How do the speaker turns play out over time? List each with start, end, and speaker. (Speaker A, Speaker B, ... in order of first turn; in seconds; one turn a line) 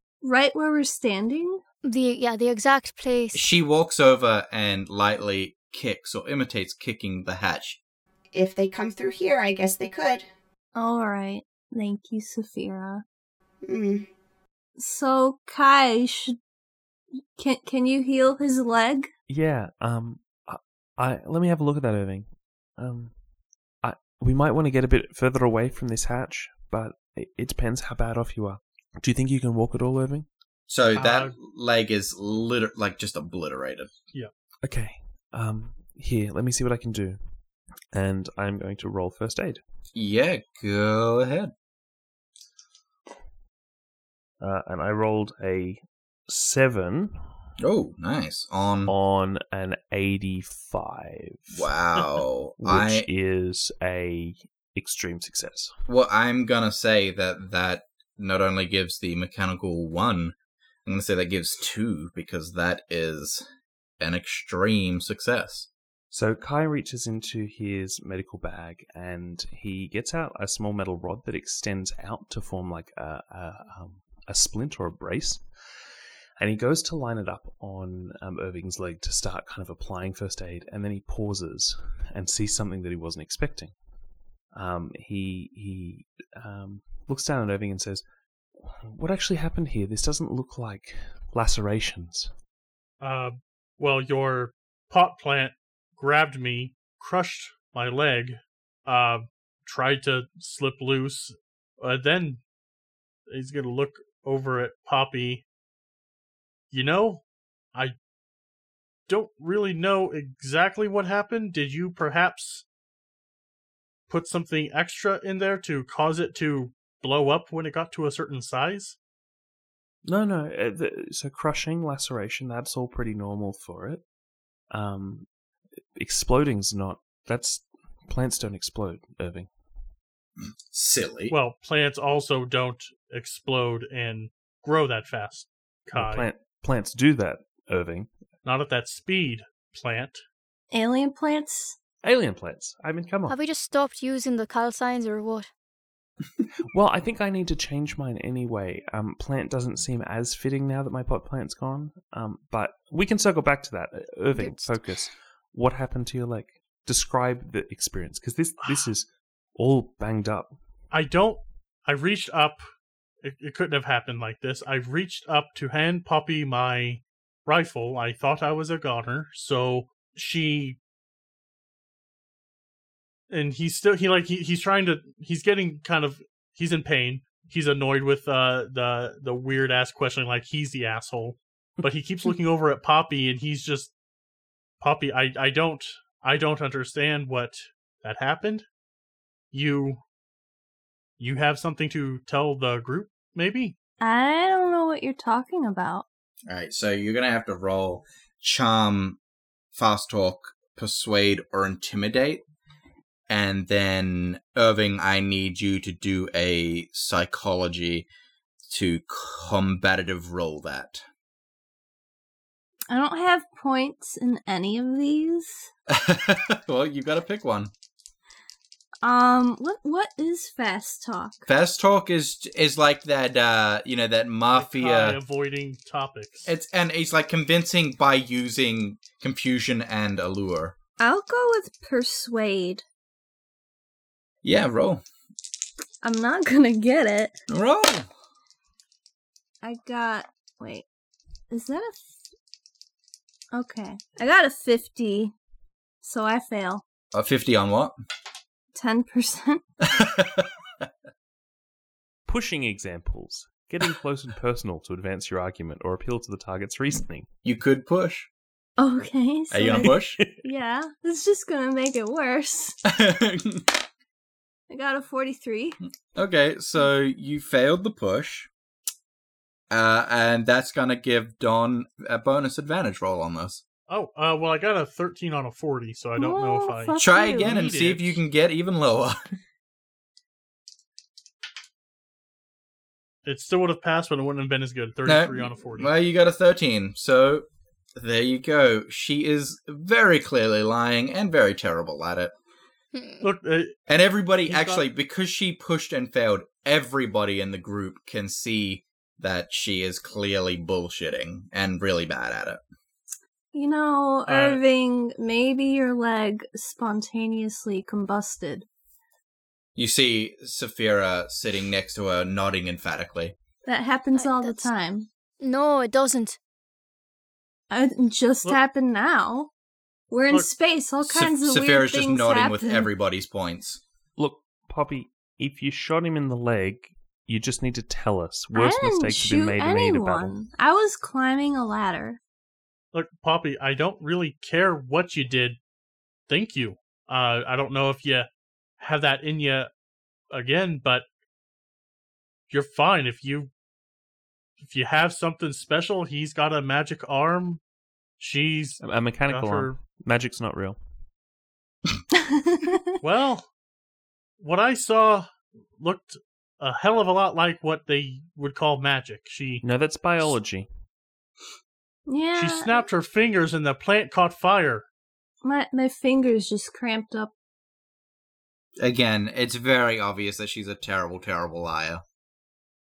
Speaker A: 0.2-1.6
Speaker B: 1.8-3.5
Speaker C: 3.3-7.8
Speaker D: 8.3-10.3
Speaker A: 10.7-13.0
Speaker D: 13.6-14.1
Speaker A: 14.8-16.4
Speaker A: 17.1-19.1
Speaker E: 19.3-23.2
Speaker E: 23.8-30.3
Speaker C: 30.7-33.9
Speaker F: 30.9-31.3
Speaker E: 34.6-37.3
Speaker E: 37.9-39.6
Speaker C: 39.9-41.5
Speaker E: 44.4-47.1
Speaker C: 47.6-48.9
Speaker E: 48.9-55.8
Speaker C: 51.5-53.1
Speaker C: 55.9-60.3
Speaker C: 60.9-63.4
Speaker C: 64.0-65.7
Speaker E: 66.1-75.4
Speaker E: 76.4-83.7
Speaker E: 84.5-88.0
Speaker E: 88.5-92.3
Speaker F: 93.0-102.4
Speaker F: 103.3-105.4
Speaker F: 106.7-107.2
Speaker F: 109.1-112.6
Speaker F: 114.1-119.0
Speaker E: 120.0-124.0
Speaker E: 124.7-125.3
Speaker E: 125.9-129.5
Speaker C: 130.4-131.3
Speaker F: 131.3-136.3
Speaker E: 135.9-138.1
Speaker F: 138.4-140.2
Speaker A: 140.7-141.8
Speaker E: 142.0-143.3
Speaker B: 143.3-145.5
Speaker E: 146.7-160.5
Speaker B: 154.3-154.8
Speaker F: 160.9-162.6
Speaker F: 163.2-170.8
Speaker F: 173.3-183.9
Speaker F: 184.8-188.7
Speaker F: 189.5-190.0
Speaker F: 191.2-193.7
Speaker A: 194.0-196.1
Speaker C: 196.5-199.2
Speaker C: 199.7-202.4
Speaker C: 203.3-208.1
Speaker C: 208.7-211.0
Speaker A: 212.9-215.7
Speaker C: 215.9-217.7
Speaker A: 219.0-221.5
Speaker C: 221.5-225.2
Speaker F: 224.5-226.5
Speaker C: 226.5-230.8
Speaker A: 231.0-232.8
Speaker C: 234.4-235.0
Speaker A: 236.0-237.3
Speaker C: 237.5-238.1
Speaker A: 239.6-240.8
Speaker A: 241.5-242.2
Speaker A: 243.5-245.3
Speaker A: 246.0-246.8
Speaker C: 247.1-248.0
Speaker A: 248.7-249.6
Speaker C: 249.9-250.8
Speaker E: 252.2-257.3
Speaker C: 257.4-258.3
Speaker A: 258.8-262.8
Speaker C: 259.5-260.2
Speaker C: 262.9-263.7
Speaker A: 264.7-265.8
Speaker C: 266.1-268.5
Speaker C: 269.7-273.6
Speaker F: 273.9-278.2
Speaker A: 276.1-277.5
Speaker C: 277.0-279.3
Speaker F: 283.2-285.9
Speaker C: 285.1-292.3
Speaker B: 292.9-293.3
Speaker F: 293.2-293.8
Speaker C: 293.9-302.6
Speaker F: 294.4-294.8
Speaker A: 303.5-308.7
Speaker F: 304.3-304.6
Speaker C: 309.8-313.3
Speaker A: 313.6-315.1
Speaker B: 314.1-314.7
Speaker B: 315.4-316.4
Speaker A: 317.7-319.5
Speaker A: 320.1-322.9
Speaker C: 321.0-323.8
Speaker E: 324.2-330.4
Speaker A: 328.5-332.2
Speaker F: 332.9-335.6
Speaker F: 336.3-338.3
Speaker F: 338.8-339.7
Speaker F: 340.3-341.0
Speaker F: 342.5-343.5
Speaker F: 344.6-347.6
Speaker F: 348.2-349.8
Speaker E: 348.8-350.8
Speaker A: 352.1-352.9
Speaker F: 353.0-353.5
Speaker F: 354.4-359.6
Speaker E: 359.6-360.7
Speaker A: 362.1-362.9
Speaker F: 362.4-364.9
Speaker A: 365.4-367.3
Speaker C: 368.8-372.0